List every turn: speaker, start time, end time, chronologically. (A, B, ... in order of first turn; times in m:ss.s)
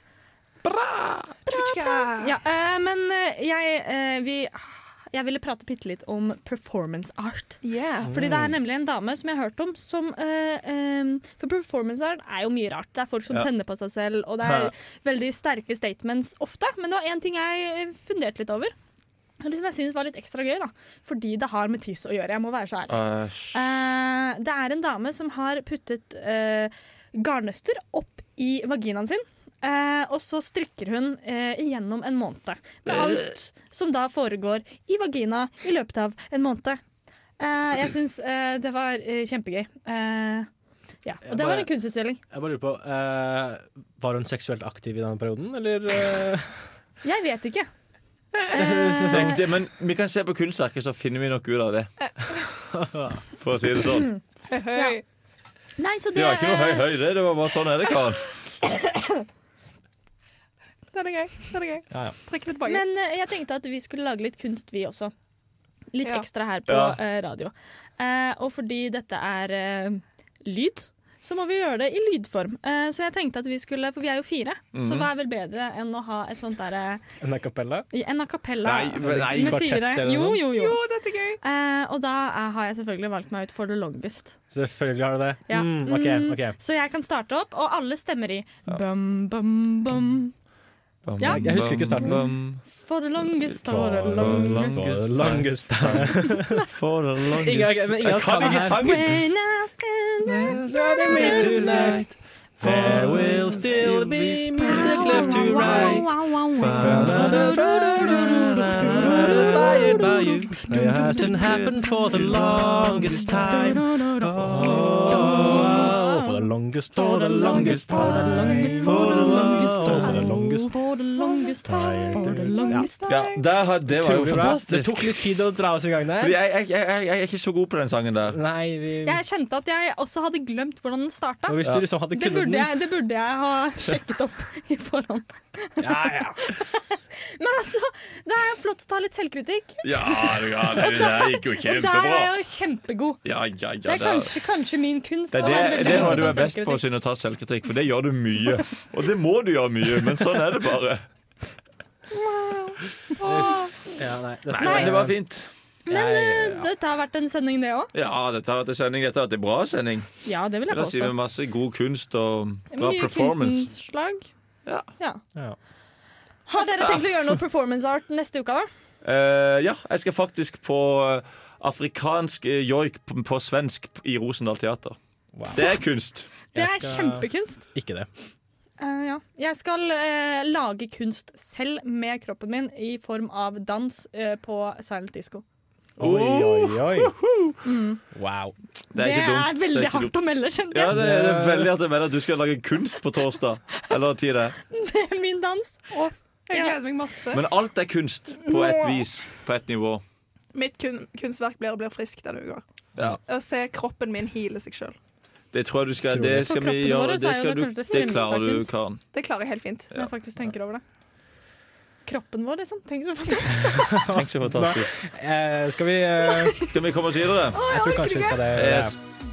0:00.6-0:01.3 A
0:01.5-0:02.4 B
0:01.5-0:07.6 C
0:07.6-0:08.1 B
0:08.1-0:08.6 D
0:08.1-0:18.7 C
0:14.4-0:14.7 A
0:19.4-0:23.0 C
0:22.9-0:23.6 A
0:23.5-0:36.8 C
0:32.9-0:33.3 A
0:37.4-0:40.5 C
0:41.0-0:42.2 C
0:41.2-0:41.7 D
0:42.3-0:46.6 D
0:47.0-0:47.7 C
0:48.5-0:49.4 D
0:48.5-0:49.4 C
0:49.1-0:51.9 A
0:52.7-0:53.2 D
0:53.4-0:54.1 A
0:54.5-0:55.0 B
0:55.8-0:56.9 C
0:56.2-0:58.3 A
0:58.7-0:59.1 C
1:00.9-1:02.8 B
1:02.6-1:05.1 C
1:05.9-1:17.0 C
1:06.7-1:07.0 A
1:14.7-1:15.1 A
1:17.2-1:17.9 D
1:17.9-1:20.8 C
1:18.6-1:19.6 A
1:19.0-1:20.4 D
1:20.5-1:21.4 B
1:21.4-1:24.4 C
1:24.5-1:26.6 D
1:25.5-1:30.3 C
1:31.1-1:32.6 A
1:31.2-1:34.8 C
1:31.2-1:32.2 D
1:33.6-1:36.6 D
1:33.8-1:39.2 A
1:36.2-1:36.7 C
1:37.4-1:39.2 D
1:38.4-1:41.9 C
1:40.3-1:50.5 A
1:40.7-1:42.1 D
1:42.6-1:46.1 D
1:44.6-2:03.2 C
1:46.8-2:00.7 D
1:51.1-1:55.8 A
1:57.4-2:00.2 A
2:01.6-2:02.9 D
2:02.2-2:03.4 B
2:03.1-2:05.1 A
2:03.9-2:06.4 D
2:06.2-2:08.4 A
2:08.3-2:09.2 D
2:09.0-2:23.2 C
2:11.5-2:12.7 D
2:15.8-2:16.5 D
2:19.8-2:22.3 A
2:23.2-2:24.3 A
2:23.8-2:26.8 C
2:25.3-2:31.0 A
2:32.3-2:32.7 C
2:33.2-2:35.2 D
2:33.2-2:33.7 C
2:34.5-2:35.5 A
2:34.6-2:35.1 C
2:35.9-2:36.7 D
2:35.9-2:37.9 C
2:37.9-2:40.2 A
2:40.2-2:41.1 C
2:40.7-2:43.7 A
2:42.7-2:44.3 C
2:46.5-2:48.7 C
2:46.6-2:47.0 A
2:49.0-2:55.0 A
2:55.4-2:55.6 D
2:55.5-2:56.3 A
2:56.5-2:57.6 C
2:56.5-2:58.1 D
2:58.8-3:05.4 C
3:06.0-3:07.1 D
3:06.0-3:07.6 A
3:07.6-3:08.0 C
3:08.1-3:08.6 D
3:08.9-3:10.2 A
3:09.0-3:11.0 C
3:10.7-3:14.6 A
3:10.9-3:11.7 D
3:14.7-3:16.8 C
3:16.5-3:17.4 B
3:17.3-3:20.0 A
3:18.5-3:19.0 C
3:20.5-3:22.6 B
3:23.0-3:23.2 A
3:23.3-3:25.0 B
3:25.5-3:29.0 A
3:26.1-3:26.5 D
3:26.4-3:28.7 C
3:29.1-3:29.9 B
3:29.9-3:30.8 C
3:32.1-3:34.1 C
3:33.7-3:36.7 D
3:34.1-3:35.0 A
3:36.7-3:37.6 A
3:37.5-3:38.4 C
3:37.6-3:39.0 D
3:38.5-3:39.0 A